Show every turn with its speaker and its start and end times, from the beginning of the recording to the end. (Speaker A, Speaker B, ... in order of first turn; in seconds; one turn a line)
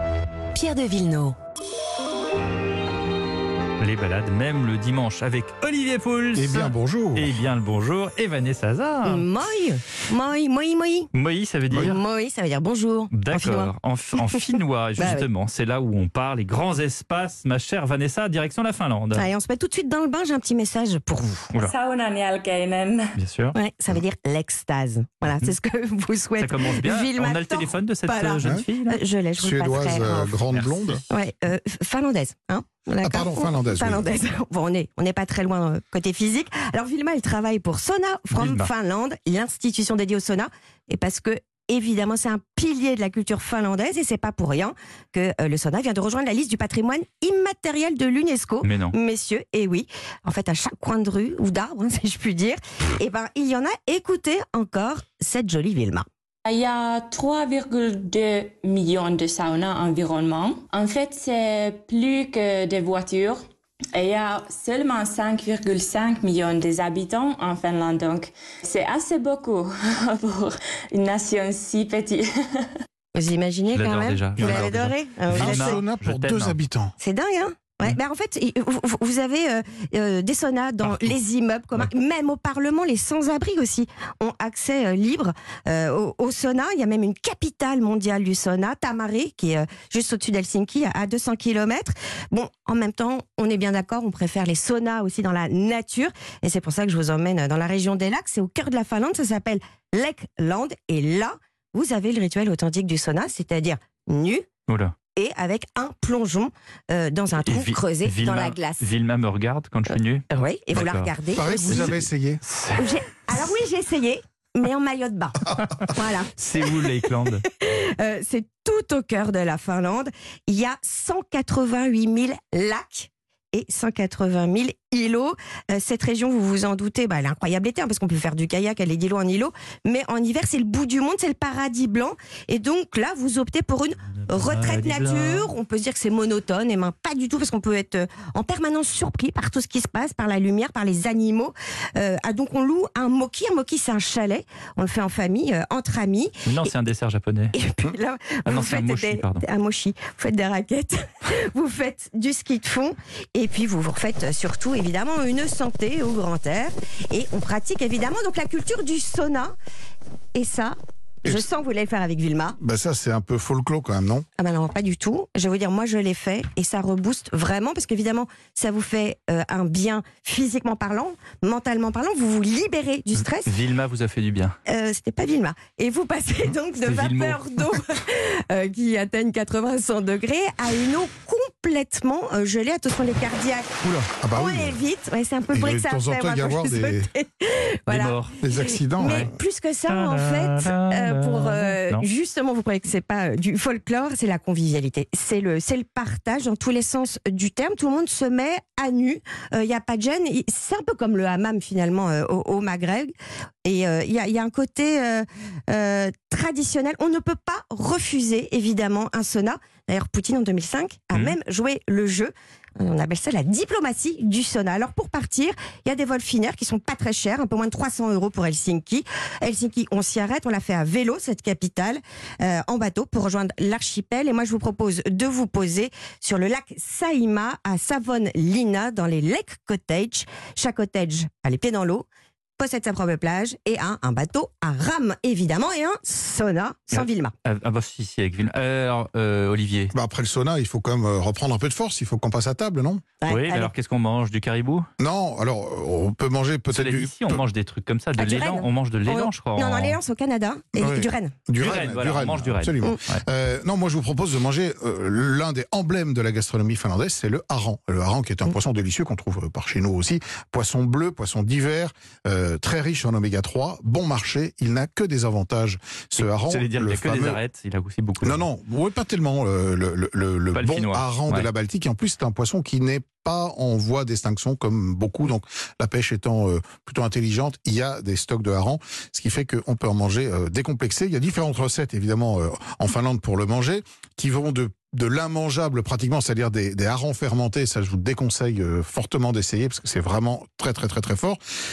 Speaker A: 0.5-1.4
Speaker B: 3.8-9.2
Speaker C: 6.3-7.3
Speaker A: 9.0-11.1
Speaker B: 11.1-12.0
Speaker A: 11.7-14.4
Speaker B: 13.1-19.2
Speaker A: 15.0-15.3
Speaker A: 19.1-21.5
Speaker D: 21.6-23.1
Speaker B: 23.2-23.6
Speaker A: 23.5-30.4
Speaker B: 26.4-29.0
Speaker C: 29.4-31.0
Speaker B: 30.5-31.1
Speaker A: 31.1-56.0
Speaker C: 33.0-34.1
Speaker B: 38.3-38.7
Speaker B: 48.6-48.9
Speaker D: 56.5-63.4
Speaker D: 63.9-72.8
Speaker A: 73.1-75.8
Speaker B: 73.7-76.5
Speaker C: 74.4-74.8
Speaker C: 75.3-77.0
Speaker A: 77.0-104.4
Speaker B: 80.8-81.2
Speaker B: 104.7-104.9
Speaker A: 105.1-108.9
Speaker B: 107.4-111.1
Speaker A: 110.3-112.0
Speaker C: 111.3-112.4
Speaker B: 111.7-112.9
Speaker A: 112.8-146.7
Speaker B: 115.7-117.4
Speaker B: 134.3-135.5
Speaker B: 146.4-147.5
Speaker A: 147.5-159.5
Speaker B: 148.4-149.4
Speaker A: 160.3-162.6
Speaker C: 162.6-164.2
Speaker A: 164.4-173.5
Speaker B: 173.4-174.5
Speaker A: 174.7-203.1
Speaker B: 176.8-177.7
Speaker C: 183.8-184.8
Speaker C: 185.5-187.1
Speaker B: 187.9-188.4
Speaker C: 188.4-189.3
Speaker B: 189.0-189.3
Speaker B: 189.9-192.0
Speaker A: 203.6-232.1
Speaker A: 232.6-237.3
Speaker B: 236.9-239.9
Speaker C: 239.9-243.0
Speaker A: 243.2-243.7
Speaker B: 243.3-244.8
Speaker C: 245.0-247.4
Speaker B: 246.7-250.0
Speaker A: 248.2-251.3
Speaker C: 250.8-267.4
Speaker B: 251.6-253.2
Speaker B: 266.2-268.5
Speaker C: 268.2-291.4
Speaker B: 270.6-271.5